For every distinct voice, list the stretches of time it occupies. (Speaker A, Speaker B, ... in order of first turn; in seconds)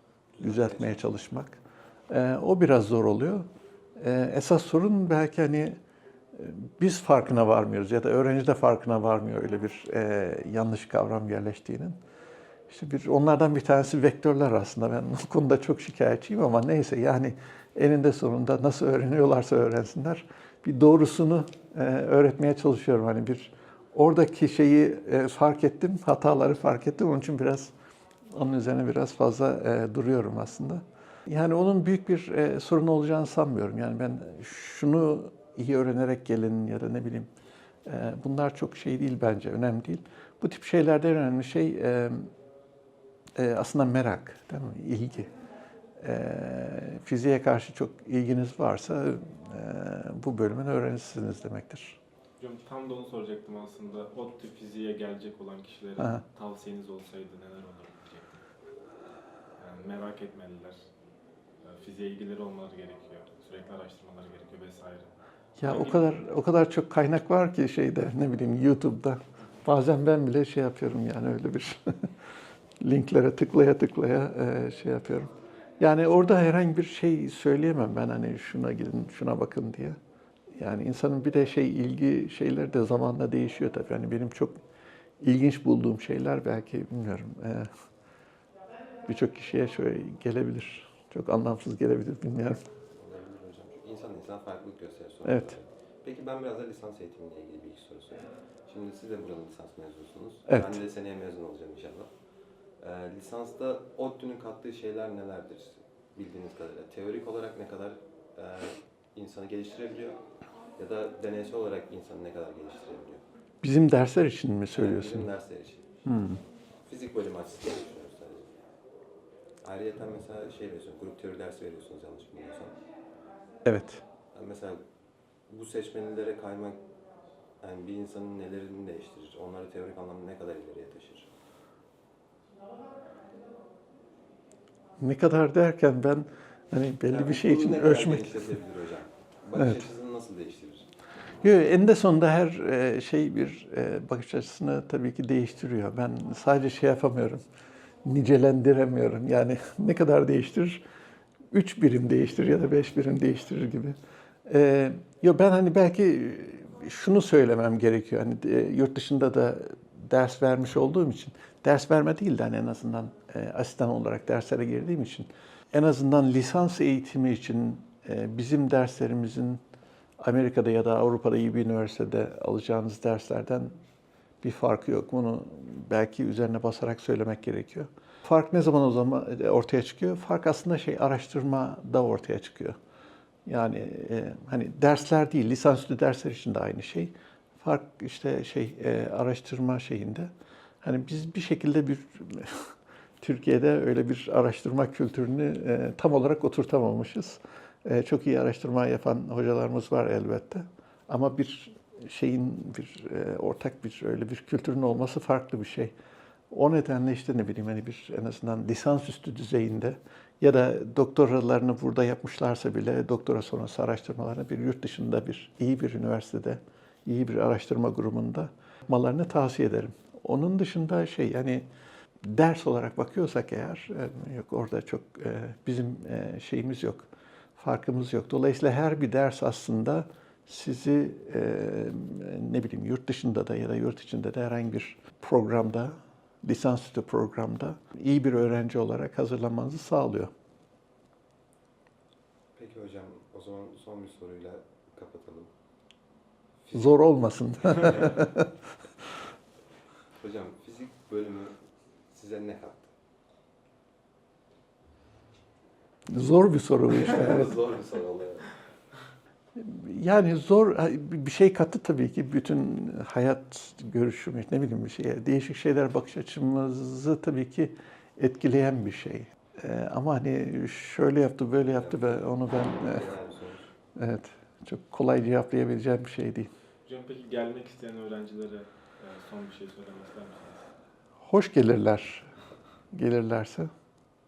Speaker A: 0.3-1.2, 93.0-102.1, 102.8-110.2, 110.8-113.2, 114.7-115.8, 116.9-118.5, 119.6-122.7, 124.3-124.8, 125.5-126.8, 127.6-131.3, 137.1-140.9, 242.6-245.5, 246.6-248.2, 250.2-251.6, 252.1-252.9, 256.9-258.5, 271.7-273.7
Speaker B: 0.4-1.6, 2.1-5.8, 6.3-12.0, 12.7-27.7, 28.3-37.3, 37.9-42.3, 43.4-45.3, 46.0-52.0, 65.6-72.1, 72.8-80.0, 80.6-84.6, 85.2-87.7, 89.1-92.6, 95.2-95.5, 100.5-100.8, 113.6-115.3, 116.1-116.4, 123.7-124.0, 135.0-138.5, 141.4-147.4, 148.0-150.8, 151.5-169.6, 170.2-173.7, 174.4-182.8, 183.5-190.3, 190.8-205.9, 206.5-221.7, 222.2-240.3, 246.7-248.6, 256.1-257.5, 259.6-273.1, 274.0-276.5, 281.2-282.3, 282.9-283.7
Speaker C: 52.4-58.4, 59.6-60.9, 61.6-66.1, 276.9-280.7